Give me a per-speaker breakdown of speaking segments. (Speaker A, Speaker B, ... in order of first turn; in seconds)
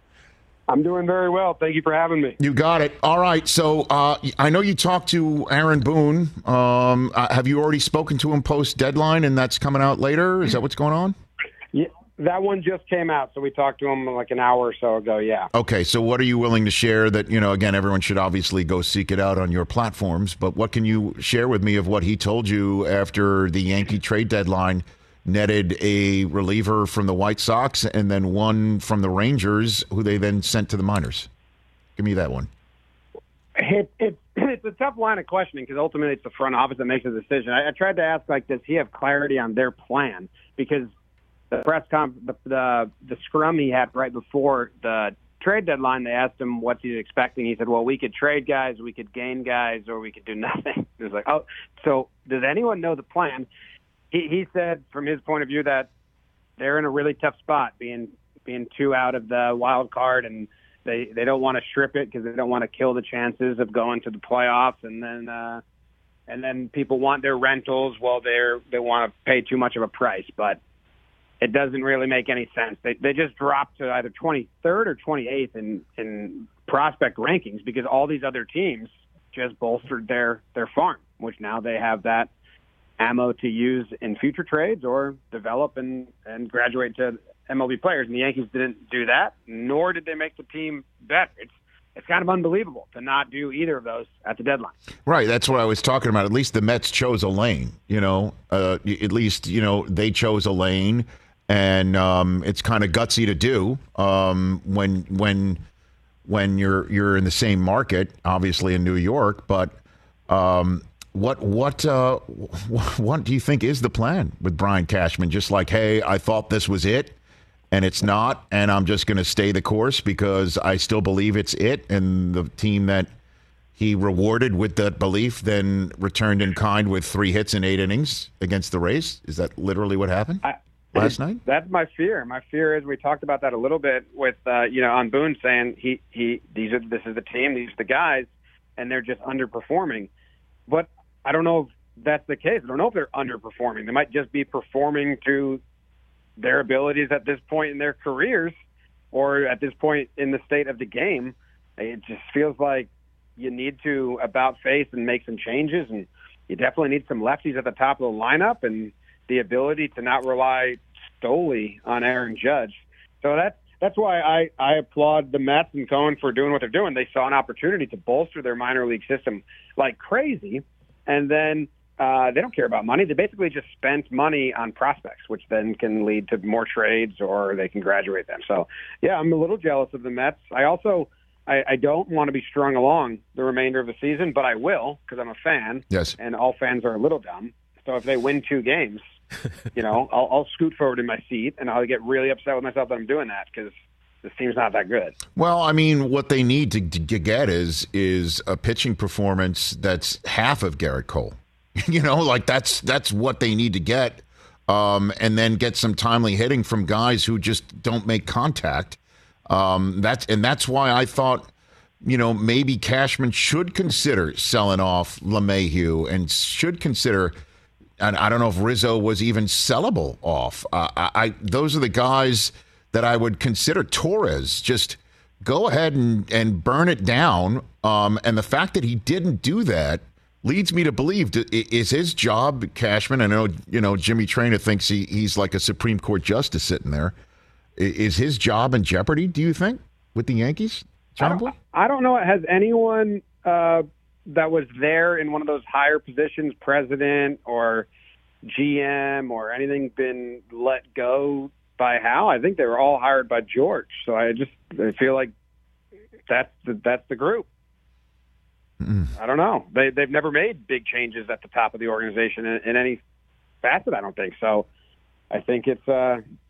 Speaker A: 0.7-2.4, 11.7-15.5, 33.5-40.9, 41.5-53.5, 54.1-55.9, 56.6-65.6, 66.3-70.6, 71.4-82.3, 83.0-94.7, 130.4-140.1, 140.7-145.6, 146.4-148.5, 149.1-189.0, 189.7-195.1, 241.2-247.9, 248.4-255.3, 256.3-257.5, 259.2-263.0, 263.6-264.7, 265.3-266.2
Speaker B: 2.4-11.2, 15.5-31.3, 32.0-32.5, 95.0-105.6, 106.2-109.8, 110.3-117.2, 117.7-123.1, 123.8-130.4, 130.9-131.4, 185.9-186.2, 195.3-211.5, 212.0-217.3, 218.0-237.2, 237.8-241.5, 258.8-259.1